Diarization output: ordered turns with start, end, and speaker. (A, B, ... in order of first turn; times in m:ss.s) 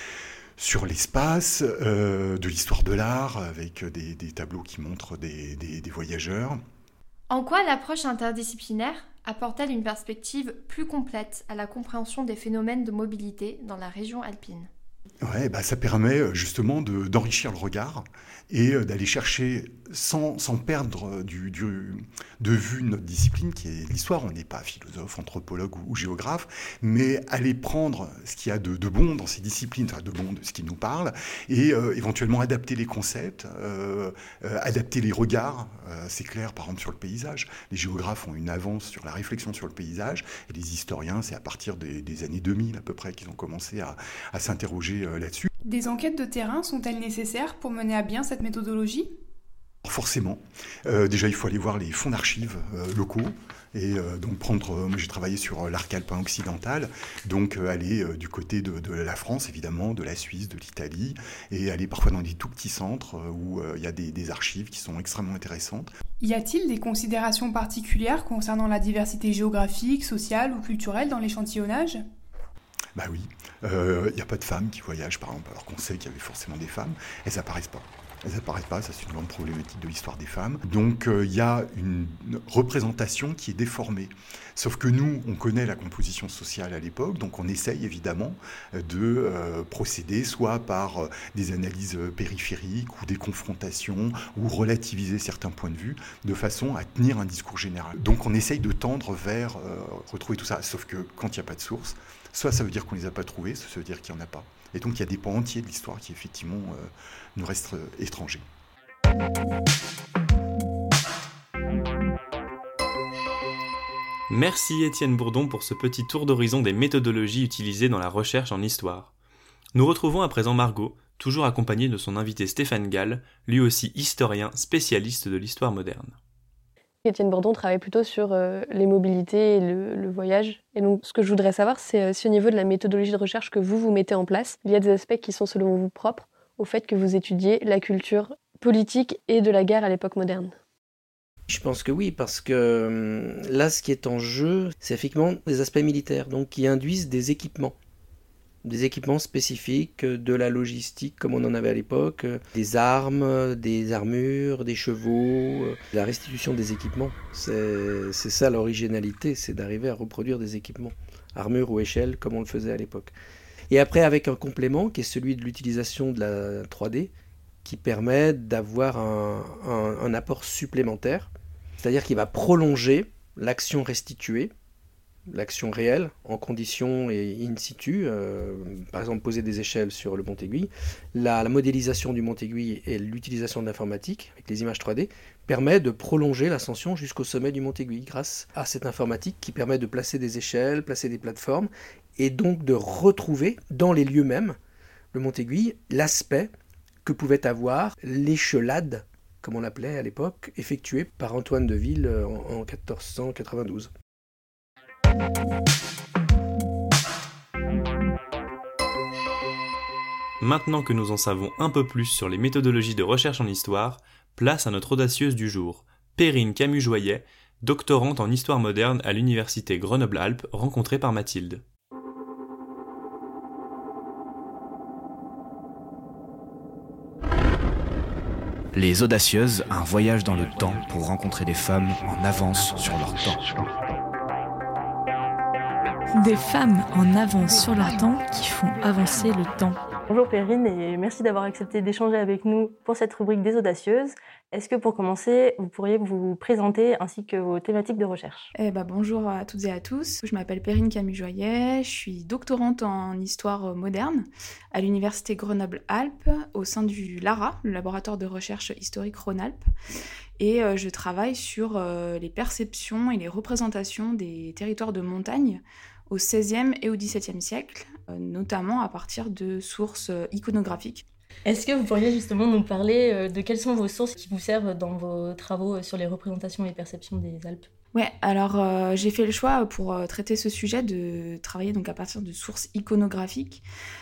0:00.6-0:06.6 A
0:07.3-0:14.7 B
0:15.2-0:45.5 A
0:45.6-0:49.1 C
0:49.8-1:05.9 A
1:06.2-1:12.0 C
1:13.0-1:48.4 A
1:54.3-1:59.1 D
1:59.7-2:06.2 D
2:07.0-2:20.5 E
2:21.5-2:27.7 F
2:28.6-2:43.1 F
2:43.7-2:47.1 F
2:47.6-2:54.5 F
2:55.3-3:14.6 F
3:15.1-3:16.5 F
3:17.0-3:23.9 F
3:30.4-3:41.6 D
3:48.7-3:53.5 G
3:56.1-3:59.8 H
4:00.1-4:08.5 I
4:08.5-4:19.6 J
4:20.4-4:31.0 J
4:31.4-4:37.7 I
4:37.9-4:43.6 J